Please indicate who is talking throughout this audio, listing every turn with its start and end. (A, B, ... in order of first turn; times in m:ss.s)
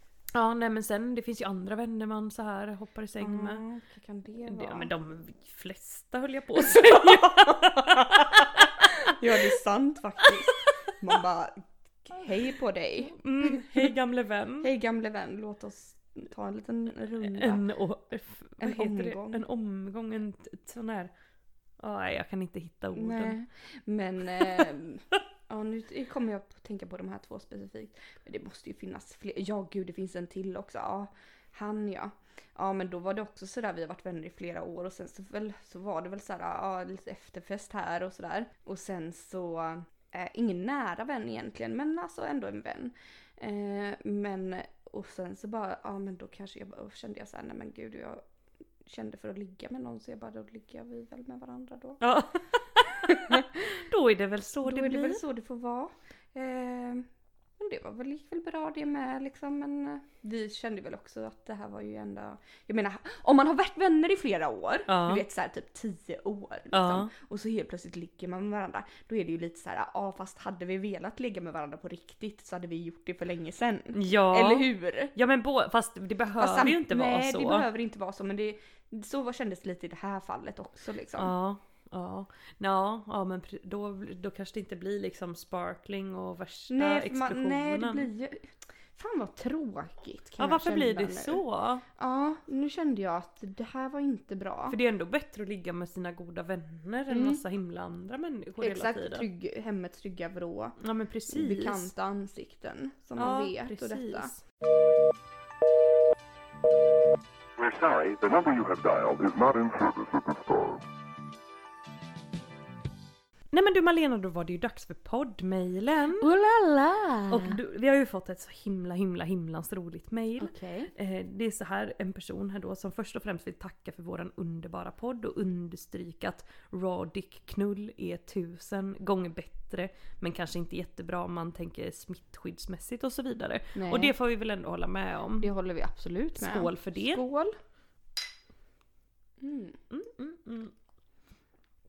0:00.3-0:03.6 A
0:03.2-0:04.9 B
0:04.5-0:08.9 A
0:06.6-0:13.9 B
0:10.3-0:10.7 A
0:13.1-0:14.7 A
0:14.6-0:17.6 B
0:17.2-0:21.1 A
0:18.6-0:19.4 B
0:21.8-0:23.4 A
0:22.9-0:48.2 B
0:48.8-0:52.0 B
0:52.0-0:55.2 A
0:53.0-0:53.8 B
0:54.6-0:57.1 B
0:57.6-1:15.1 B
1:04.9-1:05.2 A
1:06.7-1:07.1 A
1:13.9-1:17.6 A
1:16.4-1:21.3 B
1:21.2-1:28.1 A
1:26.7-1:31.4 B
1:30.4-1:31.8 A
1:32.0-1:34.8 B
1:34.7-1:39.3 A
1:37.1-1:37.4 B
1:38.6-1:40.8 B
1:40.8-1:41.9 A
1:41.3-1:44.3 B
1:43.2-1:44.4 A
1:47.6-1:50.8 C
1:53.5-1:56.3 A
1:56.2-1:57.6 B
1:57.3-2:15.5 A
2:00.4-2:00.9 B
2:13.7-2:14.1 B
2:15.4-2:17.5 B
2:16.3-2:17.2 A
2:19.4-2:19.8 B
2:19.9-2:20.7 A